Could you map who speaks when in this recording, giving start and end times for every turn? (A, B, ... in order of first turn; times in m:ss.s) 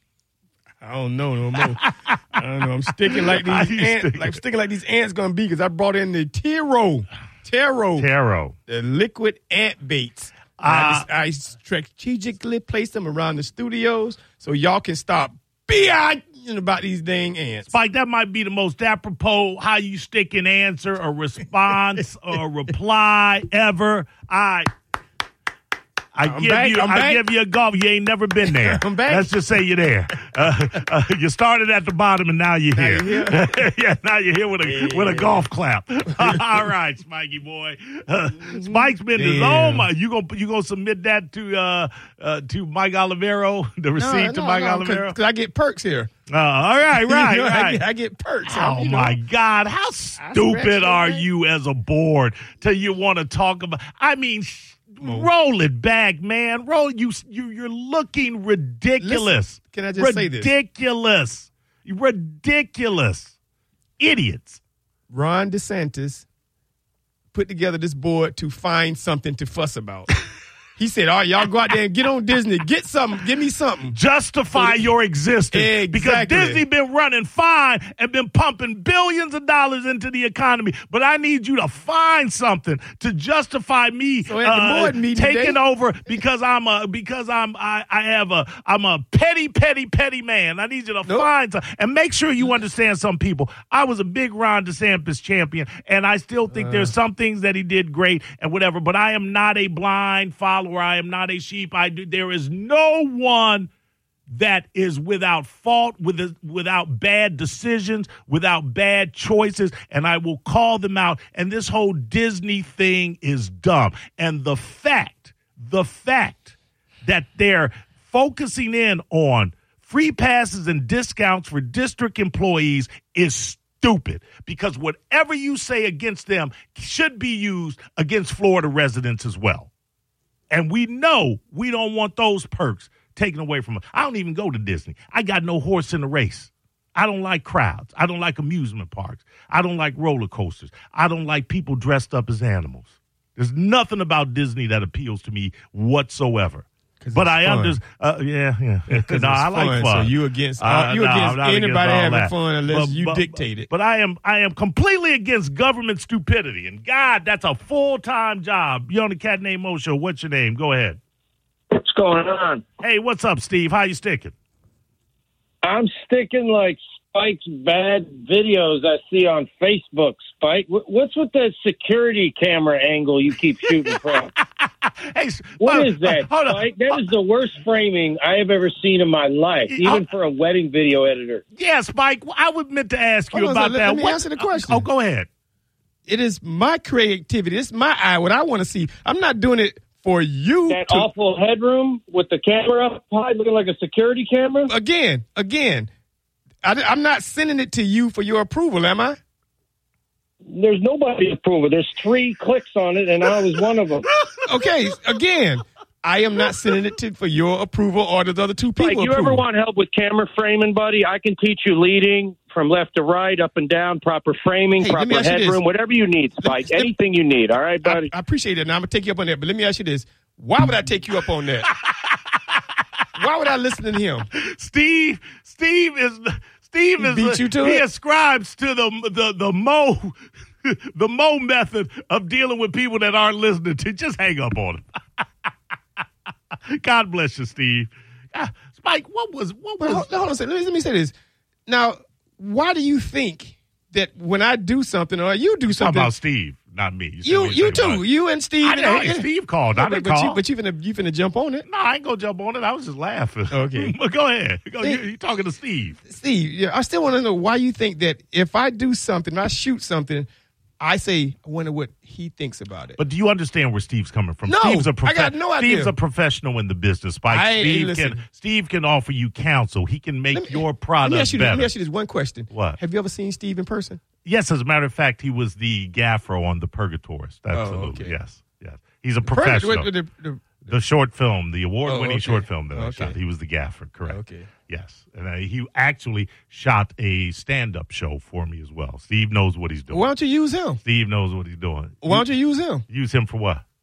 0:00.8-0:08.1 A
0:01.8-0:02.3 B
0:03.2-0:04.4 B
0:08.0-0:08.6 B
0:08.7-0:17.7 A
0:10.6-0:11.1 B
0:17.7-0:24.7 B
0:26.1-0:45.2 B
0:26.2-0:27.2 A
0:28.4-0:29.3 A
0:32.8-0:33.6 A
0:34.6-0:35.4 A
0:36.2-0:36.5 A
0:38.4-0:39.9 A
0:44.0-0:46.1 A
0:46.3-0:47.8 B
0:46.9-0:49.2 A
0:48.5-1:03.4 B
0:50.2-0:51.3 A
0:55.0-0:55.3 A
0:59.0-1:00.5 A
1:04.0-1:04.6 B
1:05.1-1:06.3 A
1:07.3-1:10.1 A
1:10.8-1:14.0 A
1:13.9-1:43.7 B
1:14.6-1:14.8 A
1:15.5-1:16.6 A
1:24.2-1:25.6 A
1:36.5-1:36.9 A
1:44.3-2:09.7 B
2:10.5-2:41.0 B
2:27.0-2:27.8 A
2:28.9-2:33.7 A
2:41.7-2:42.6 C
2:42.8-2:44.4 B
2:45.6-2:54.3 C
2:53.8-2:56.7 B
2:55.6-3:01.4 C
2:59.7-3:00.0 B
3:01.6-3:05.3 B
3:03.3-3:04.9 A
3:06.1-3:11.1 A
3:10.7-3:14.7 C
3:14.7-3:15.9 A
3:16.6-3:19.2 A
3:20.5-3:24.1 C
3:24.4-3:29.4 A
3:28.8-3:38.1 C
3:34.8-3:35.6 A
3:36.4-3:36.9 A
3:37.8-3:41.7 A
3:43.2-3:44.3 A
3:44.4-3:50.2 B
3:47.0-3:47.8 A
3:50.7-3:55.2 B
3:56.7-4:00.1 B
3:59.8-4:01.1 A
4:01.7-4:06.1 A
4:05.7-4:08.0 B
4:07.2-4:11.6 A
4:08.6-4:10.4 B
4:11.7-4:16.0 B
4:13.5-4:14.0 A
4:16.0-4:20.3 A
4:20.8-4:23.0 A
4:23.0-4:31.7 B
4:24.5-4:25.9 A
4:27.3-4:28.2 A
4:30.3-4:34.0 A
4:32.5-4:32.8 B
4:34.2-4:39.9 B
4:37.5-4:38.2 A
4:39.2-4:40.8 A
4:40.7-4:50.1 B
4:41.9-4:43.2 A
4:44.1-4:44.5 A
4:49.9-4:50.8 A
4:50.8-4:52.3 B
4:52.0-4:52.8 A
4:52.9-4:53.6 B